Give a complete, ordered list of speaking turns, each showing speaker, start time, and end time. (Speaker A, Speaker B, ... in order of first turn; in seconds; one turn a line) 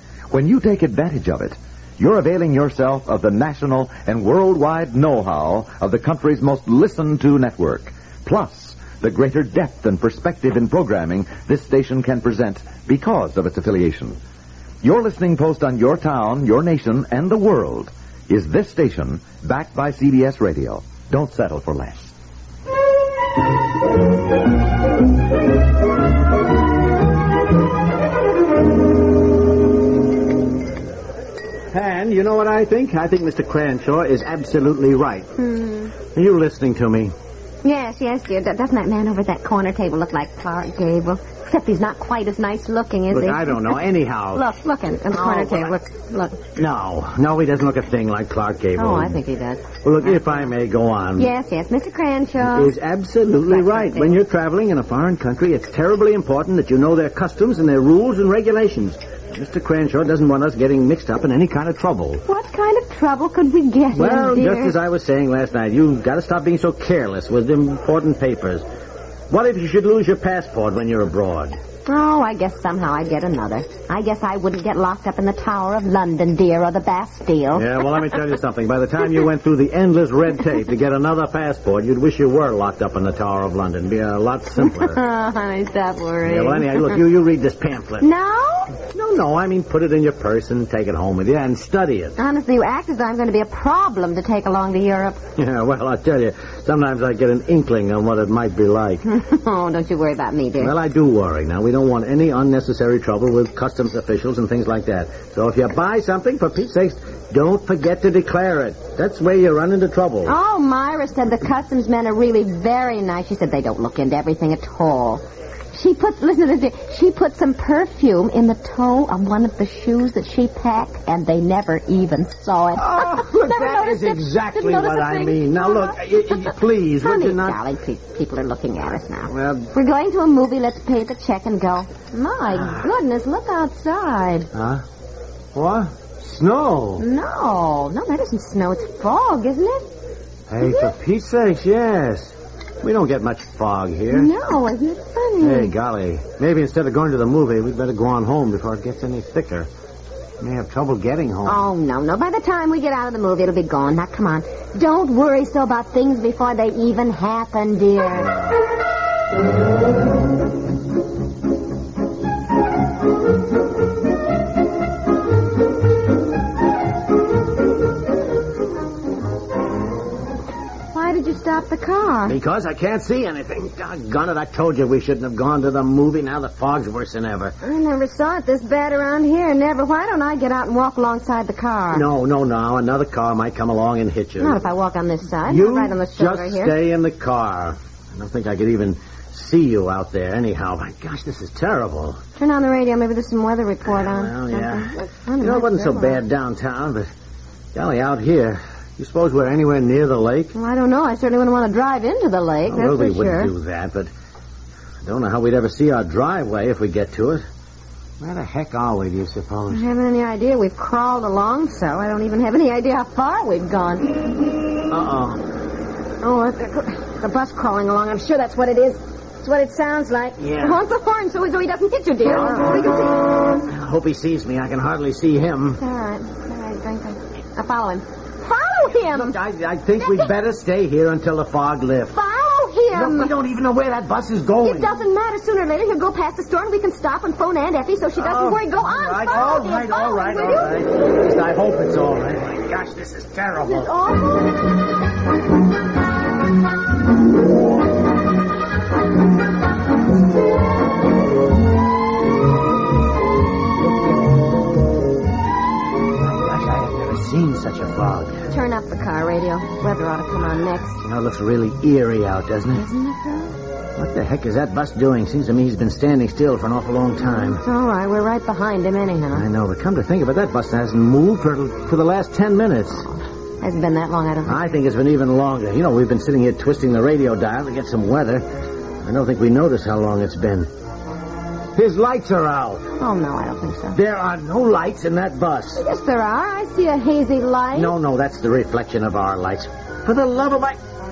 Speaker A: 0.3-14.2
Speaker A: 14.8-22.1
Speaker B: 21.8-22.1
Speaker B: 31.7-35.3
Speaker C: 35.4-35.9
Speaker B: 36.1-37.1
Speaker C: 37.6-46.4
Speaker B: 43.1-44.5
Speaker B: 45.1-45.8
Speaker B: 46.6-49.2
Speaker C: 48.8-50.5
Speaker B: 49.8-51.3
Speaker C: 51.2-52.7
Speaker B: 52.4-62.2
Speaker C: 53.5-54.2
Speaker C: 62.3-64.8
Speaker B: 63.9-68.7
Speaker B: 69.3-71.6
Speaker C: 71.9-77.8
Speaker B: 77.5-85.0
Speaker C: 84.8-86.9
Speaker B: 86.3-88.1
Speaker C: 88.0-88.7
Speaker B: 88.9-92.2
Speaker C: 92.2-95.2
Speaker B: 95.4-99.0
Speaker C: 99.0-100.8
Speaker B: 100.6-110.3
Speaker C: 110.3-126.5
Speaker B: 122.8-127.6
Speaker C: 127.0-134.5
Speaker B: 129.3-129.7
Speaker B: 134.5-134.8
Speaker B: 135.5-137.1
Speaker C: 137.0-139.9
Speaker B: 140.5-144.3
Speaker C: 140.6-140.9
Speaker C: 144.1-145.7
Speaker B: 145.4-149.7
Speaker B: 150.4-151.6
Speaker C: 151.4-158.4
Speaker C: 170.9-172.4
Speaker B: 172.3-177.6
Speaker C: 177.6-182.1
Speaker B: 181.9-184.6
Speaker C: 184.4-186.8
Speaker B: 185.5-192.2
Speaker C: 192.4-196.2
Speaker B: 194.2-194.9
Speaker B: 195.4-197.1
Speaker B: 197.7-200.5
Speaker C: 200.5-203.5
Speaker B: 202.7-204.1
Speaker B: 205.0-207.5
Speaker B: 208.2-209.9
Speaker C: 209.7-214.2
Speaker B: 214.9-215.4
Speaker C: 216.2-223.5
Speaker B: 220.4-220.8
Speaker B: 223.6-225.8
Speaker C: 225.8-229.4
Speaker B: 229.1-232.2
Speaker C: 230.0-230.3
Speaker C: 232.1-233.3
Speaker B: 232.9-234.9
Speaker C: 234.6-240.8
Speaker B: 238.2-243.9
Speaker C: 243.6-244.6
Speaker B: 256.2-258.5
Speaker C: 258.5-261.0
Speaker B: 261.0-262.9
Speaker C: 262.7-263.5
Speaker B: 264.0-267.6
Speaker C: 267.2-269.5
Speaker B: 269.3-273.0
Speaker C: 272.9-274.7
Speaker B: 274.5-278.5
Speaker B: 279.0-280.7
Speaker B: 281.8-282.9
Speaker C: 283.0-284.0
Speaker B: 283.9-285.8
Speaker C: 285.8-288.0
Speaker B: 287.7-290.8